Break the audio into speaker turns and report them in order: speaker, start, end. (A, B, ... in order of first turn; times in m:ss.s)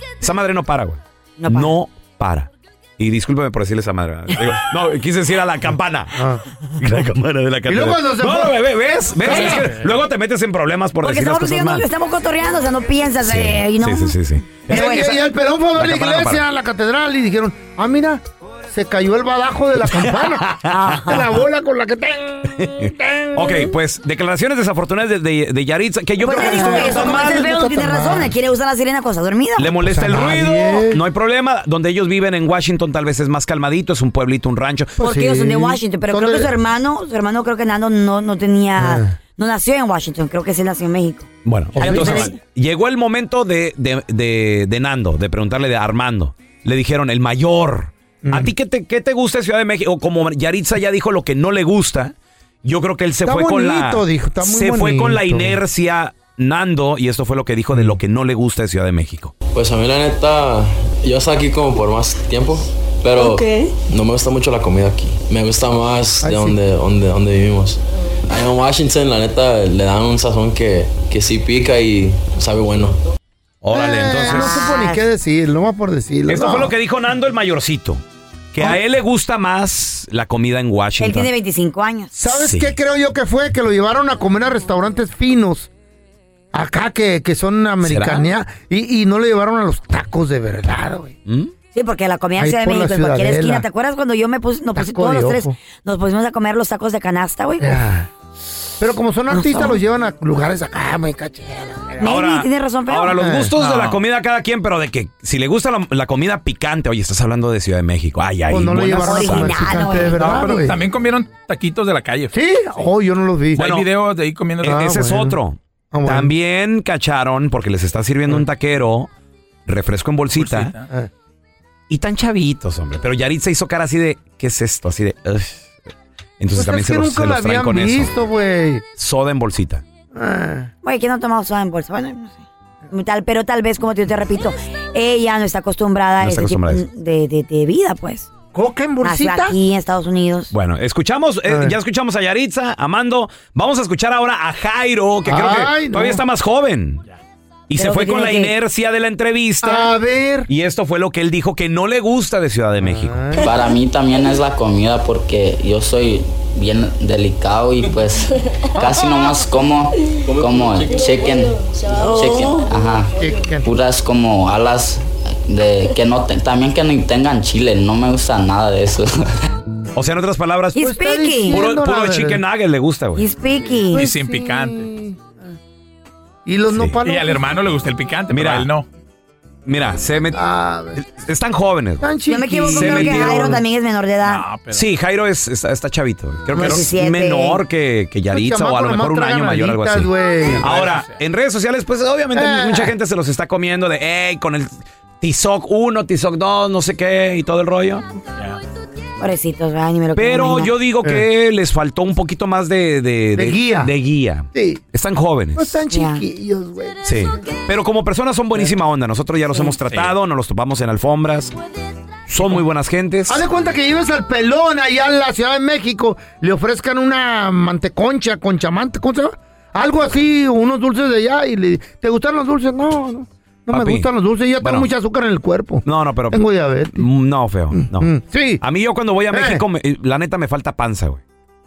0:00.2-0:11.9 A
0:01.4-0:01.7 B
0:06.1-0:06.4 C
0:07.6-0:08.6 C
0:09.2-0:09.8 C
0:11.0-0:14.2 B
0:13.2-0:15.2 A
0:14.7-0:15.1 B
0:14.7-0:23.7 C
0:15.7-0:16.4 A
0:20.0-0:21.2 A
0:20.7-0:21.2 B
0:22.6-0:27.5 A
0:26.2-0:28.3 C
0:26.2-0:29.7 B
0:29.6-0:35.0 A
0:29.8-0:31.0 C
0:35.0-0:36.5 C
0:35.0-0:41.3 B
0:38.8-0:39.2 C
0:41.4-0:59.3 A
0:41.7-0:42.3 C
0:41.8-0:42.3 B
0:48.2-0:48.5 C
0:53.2-0:55.6 C
0:57.7-0:58.0 C
0:59.5-1:13.0 D
1:06.2-1:06.6 C
1:13.6-1:14.7 A
1:13.7-1:16.7 C
1:14.3-1:15.0 B
1:16.3-1:18.0 A
1:18.5-1:21.3 A
1:21.0-1:22.1 B
1:22.1-1:25.7 C
1:22.3-1:22.7 A
1:26.5-1:31.1 C
1:27.8-1:28.3 A
1:31.3-1:31.5 A
1:31.7-1:37.7 B
1:32.4-1:33.6 C
1:34.7-1:35.6 C
1:37.6-1:38.1 C
1:38.8-1:42.2 C
1:39.3-1:39.8 B
1:42.0-1:43.2 B
1:42.0-1:49.6 A
1:43.2-1:43.5 C
1:43.6-1:44.0 E
1:48.5-1:50.8 C
1:49.0-1:50.2 B
1:50.1-1:52.3 E
1:52.3-1:53.6 C
1:53.6-1:55.0 E
1:53.6-1:53.9 A
1:54.6-1:55.4 C
1:54.6-1:59.1 A
1:55.9-1:56.3 C
1:59.7-2:00.7 A
2:00.3-2:00.9 E
2:01.9-2:05.8 A
2:06.4-2:08.1 A
2:06.5-2:08.8 C
2:09.0-2:09.8 A
2:10.1-2:10.7 C
2:10.8-2:18.3 B
2:16.2-2:16.8 A
2:18.5-2:19.6 C
2:19.0-2:20.5 B
2:20.5-2:27.0 A
2:21.4-2:21.8 C
2:25.2-2:26.2 C
2:27.7-2:29.9 A
2:27.8-2:28.5 B
2:29.6-2:30.5 C
2:30.5-2:33.3 A
2:32.8-2:33.7 C
2:33.4-2:41.5 F
2:40.2-2:43.0 D
2:42.1-2:43.1 F
2:43.1-2:43.8 C
2:43.6-2:49.3 F
2:49.9-2:50.9 A
2:50.7-2:52.4 C
2:50.9-2:51.6 B
2:51.5-2:53.3 A
2:53.2-2:54.0 B
2:53.5-2:54.9 E
2:53.9-2:55.5 C
2:56.4-2:57.5 C
2:57.0-2:58.8 E
2:58.3-2:58.7 A
2:59.6-3:00.4 A
3:00.3-3:01.0 C
3:01.0-3:02.1 A
3:02.0-3:03.6 C
3:02.3-3:04.4 B
3:02.7-3:03.6 A
3:04.2-3:04.9 E
3:04.7-3:18.0 A
3:06.5-3:06.9 C
3:06.5-3:07.6 B
3:08.3-3:10.6 C
3:10.6-3:11.2 E
3:12.3-3:12.9 C
3:19.2-3:20.7 B
3:20.1-3:25.8 A
3:23.3-3:23.9 C
3:24.5-3:24.8 C
3:25.5-3:27.0 C
3:25.9-3:26.2 B
3:27.0-3:31.5 A
3:29.8-3:30.2 E
3:32.3-3:33.4 A
3:33.3-3:47.1 C
3:43.7-3:44.1 A
3:44.6-3:44.9 A
3:45.8-3:51.2 A
3:47.7-3:48.6 C
3:49.3-3:49.6 C